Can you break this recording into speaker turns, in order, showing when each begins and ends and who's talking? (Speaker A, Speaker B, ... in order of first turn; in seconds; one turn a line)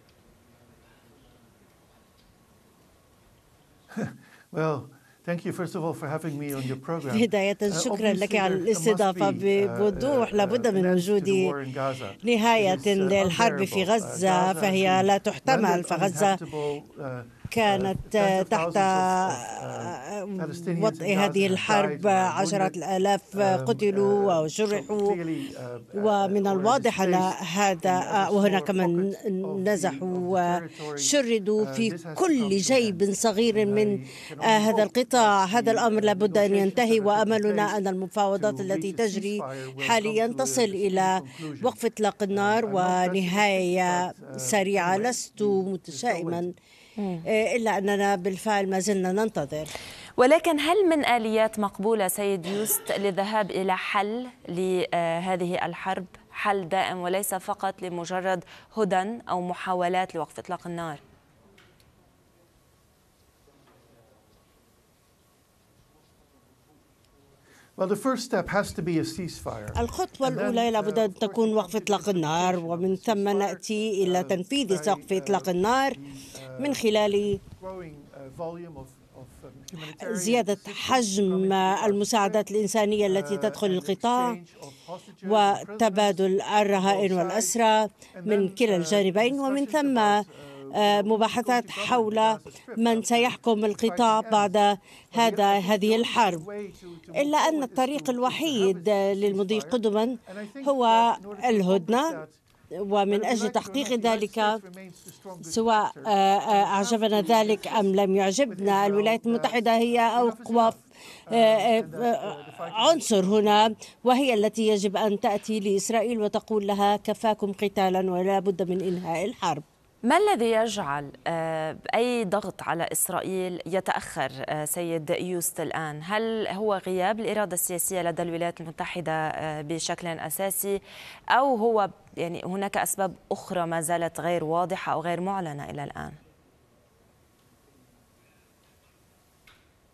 Speaker A: 3.9-22.8
Speaker B: 7.0-11.6
Speaker B: 12.2-16.4
Speaker B: 17.5-25.2
Speaker A: 23.3-37.8
Speaker B: 25.9-46.5
Speaker A: 38.4-41.8
Speaker A: 42.3-46.5
Speaker C: 47.0-47.3
Speaker B: 47.3-49.7
Speaker C: 50.2-61.0
Speaker A: 67.8-82.5
Speaker B: 69.7-76.0
Speaker B: 76.6-77.4
Speaker B: 79.8-84.4
Speaker A: 83.0-87.5
Speaker B: 85.2-96.5
Speaker A: 88.1-94.6
Speaker A: 95.1-102.4
Speaker B: 97.1-102.2
Speaker B: 102.8-104.6
Speaker A: 103.1-107.9
Speaker B: 105.4-110.8
Speaker A: 108.5-113.7
Speaker B: 111.3-119.6
Speaker C: 120.0-136.2